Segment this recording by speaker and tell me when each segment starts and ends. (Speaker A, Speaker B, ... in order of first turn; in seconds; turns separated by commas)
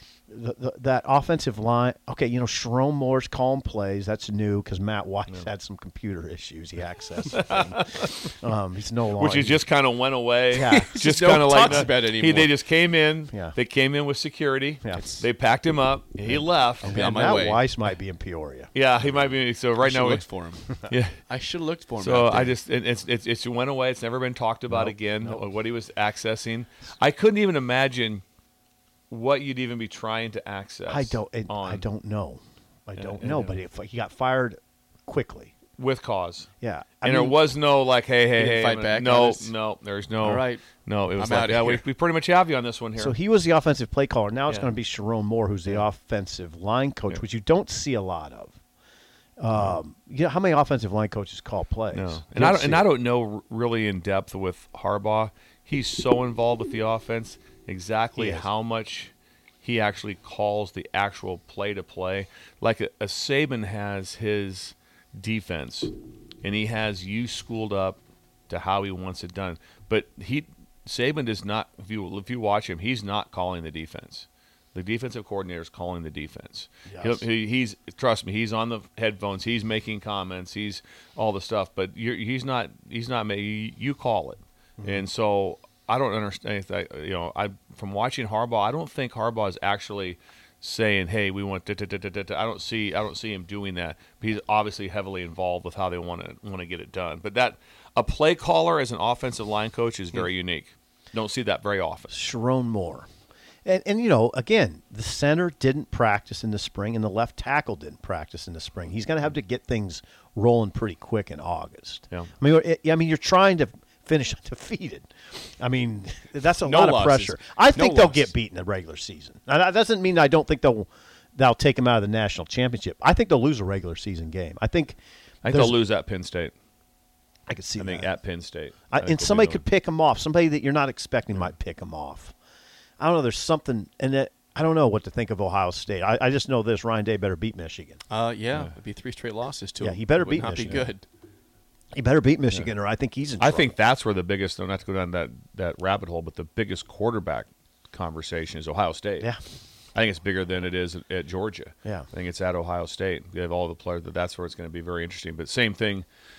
Speaker A: 0.3-9.6, Speaker B: 7.3-8.3, Speaker B: 9.2-17.1, Speaker A: 10.5-10.9, Speaker C: 10.5-12.5, Speaker C: 14.9-15.2, Speaker A: 16.2-18.7, Speaker C: 16.8-17.6, Speaker B: 18.7-20.2, Speaker C: 19.8-20.7, Speaker B: 20.9-21.1, Speaker C: 21.3-22.5, Speaker B: 22.0-28.2, Speaker A: 24.7-25.4, Speaker B: 29.1-31.8, Speaker A: 30.9-35.5, Speaker B: 33.0-33.6, Speaker B: 35.8-36.5, Speaker A: 36.6-37.4, Speaker B: 37.0-43.1, Speaker C: 38.4-39.5, Speaker C: 40.2-40.6, Speaker C: 41.1-41.8, Speaker A: 43.0-48.5, Speaker A: 49.4-52.8, Speaker B: 51.9-59.1, Speaker A: 58.1-58.5, Speaker B: 59.6-102.2, Speaker A: 76.9-77.2, Speaker A: 102.1-103.1, Speaker A: 103.6-125.8, Speaker C: 116.6-118.3, Speaker B: 125.4-126.5, Speaker A: 127.5-128.1, Speaker B: 127.8-129.6, Speaker A: 128.9-132.3, Speaker A: 133.0-138.0, Speaker C: 138.1-141.0, Speaker A: 139.8-140.8, Speaker A: 141.9-143.7, Speaker B: 143.4-149.3, Speaker B: 149.9-156.1